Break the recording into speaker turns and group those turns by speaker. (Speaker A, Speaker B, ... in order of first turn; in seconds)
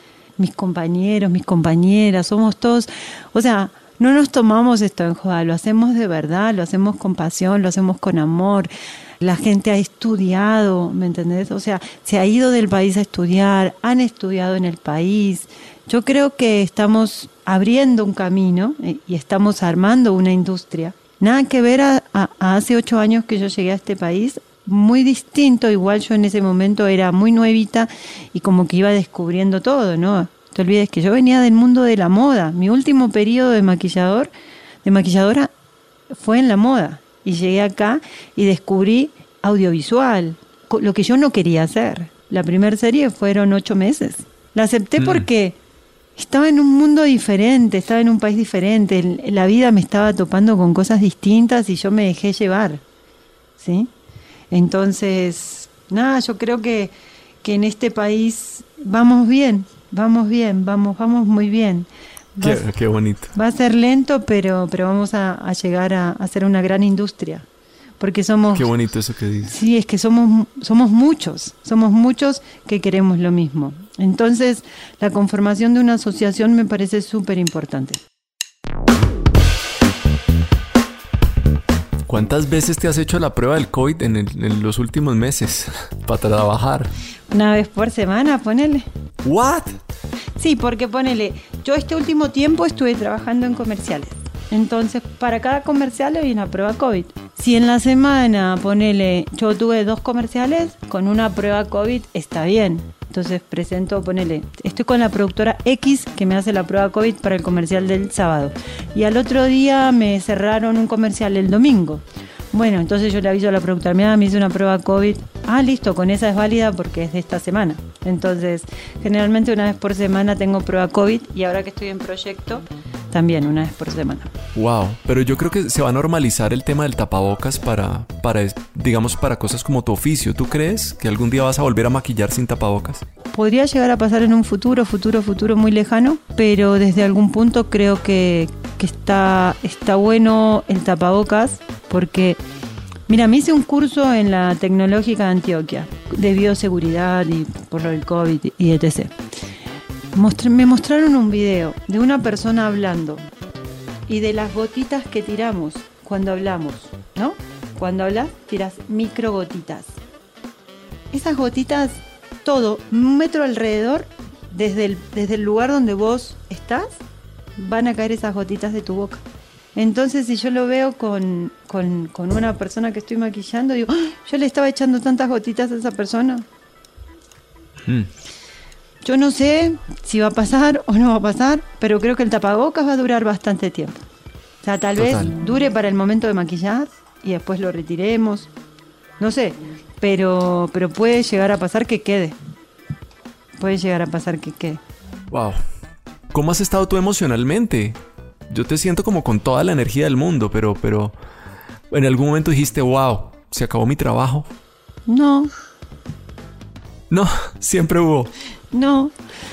Speaker A: 0.4-34.3, 34.8-35.5, 36.1-45.6, 46.1-52.8, 53.6-53.9, 54.5-62.7, 63.3-67.5, 68.0-68.7, 69.4-78.0, 87.3-88.9, 90.4-124.3, 133.3-142.4, 143.1-149.1, 150.1-153.2, 154.1-160.0, 161.1-166.9, 167.6-169.2, 169.7-176.4, 179.0-184.0, 184.6-188.5, 189.2-192.4, 193.6-194.8, 205.1-205.5, 208.7-209.1
Speaker B: 45.0-45.2, 62.4-63.3, 68.5-69.5, 82.1-86.9, 89.2-89.8, 124.5-133.0, 185.0-185.3, 195.3-195.6, 196.3-198.0, 198.5-201.1, 201.9-204.5, 207.1-208.3